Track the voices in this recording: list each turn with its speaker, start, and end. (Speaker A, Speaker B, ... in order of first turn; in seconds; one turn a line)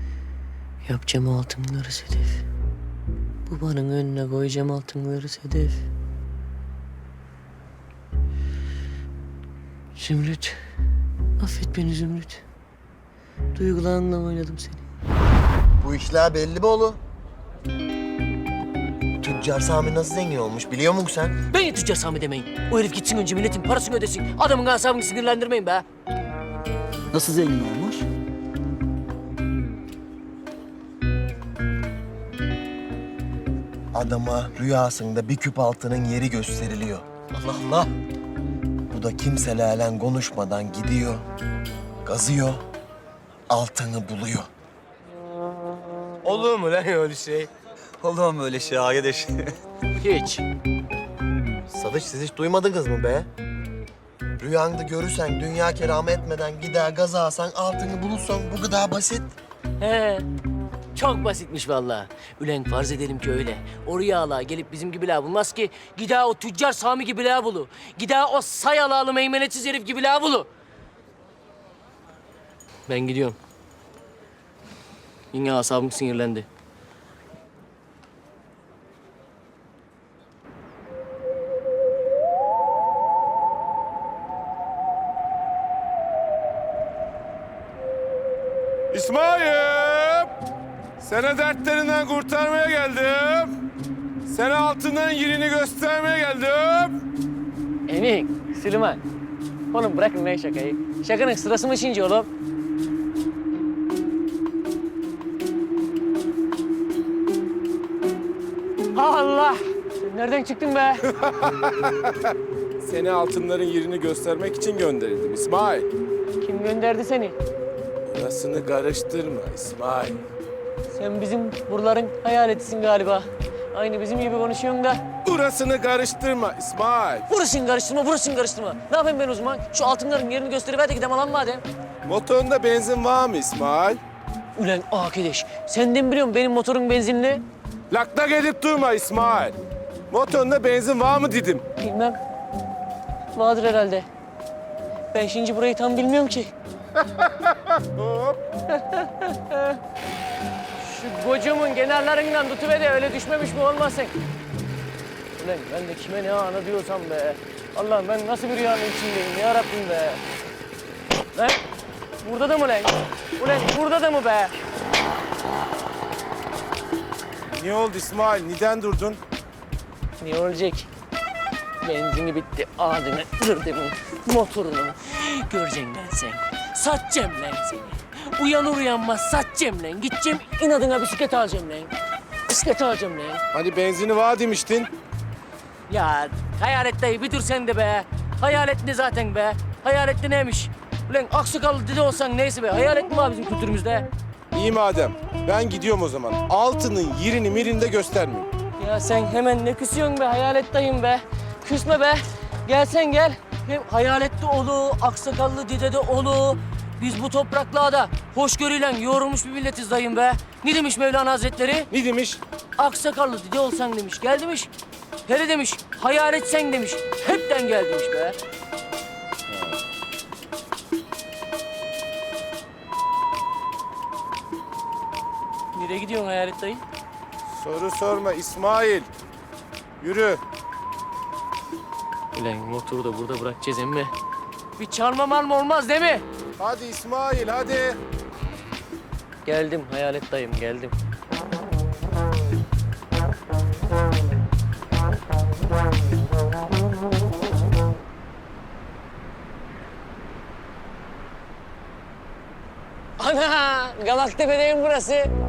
Speaker A: 0.8-2.4
Speaker A: 3.5-5.8
Speaker A: 10.0-10.6
Speaker A: 11.4-12.4
Speaker A: 13.5-14.8
Speaker B: 15.8-17.0
Speaker B: 19.2-21.3
Speaker A: 21.5-25.8
Speaker C: 27.1-28.1
Speaker B: 33.9-37.0
Speaker A: 37.3-37.9
Speaker B: 38.9-41.2
Speaker B: 42.0-42.6
Speaker B: 43.5-44.5
Speaker A: 46.2-47.5
Speaker C: 48.0-49.5
Speaker A: 50.0-50.4
Speaker B: 51.7-53.3
Speaker B: 54.4-59.3
Speaker A: 59.8-60.3
Speaker A: 60.9-70.5
Speaker A: 72.9-73.4
Speaker A: 75.3-76.5
Speaker D: 88.9-90.3
Speaker D: 91.0-93.5
Speaker D: 94.2-97.0
Speaker A: 97.9-99.0
Speaker A: 99.7-102.3
Speaker A: 108.9-111.0
Speaker D: 111.1-115.9
Speaker A: 116.4-117.3
Speaker D: 118.0-120.2
Speaker A: 120.9-125.0
Speaker D: 125.2-127.2
Speaker A: 127.3-131.6
Speaker D: 132.1-134.0
Speaker A: 134.6-137.4
Speaker D: 137.9-139.6
Speaker D: 140.1-141.6
Speaker A: 141.8-142.2
Speaker A: 143.3-144.1
Speaker A: 145.1-146.5
Speaker D: 147.3-148.4
Speaker A: 148.7-149.8
Speaker A: 150.8-154.1
Speaker A: 155.4-160.2
Speaker A: 161.3-161.6
Speaker A: 162.2-164.6
Speaker D: 167.5-169.2
Speaker A: 170.2-170.9
Speaker A: 171.8-181.9
Speaker A: 182.5-183.4
Speaker D: 183.5-184.9
Speaker A: 185.9-194.1
Speaker D: 194.5-198.5
Speaker A: 198.8-211.9
Speaker D: 211.9-212.4
Speaker A: 212.8-214.7
Speaker A: 215.2-218.4
Speaker A: 225.7-226.8
Speaker D: 227.5-229.1
Speaker D: 230.0-230.4
Speaker A: 232.3-234.1
Speaker A: 234.8-236.2
Speaker D: 236.6-238.0
Speaker A: 239.4-240.9
Speaker A: 253.2-255.3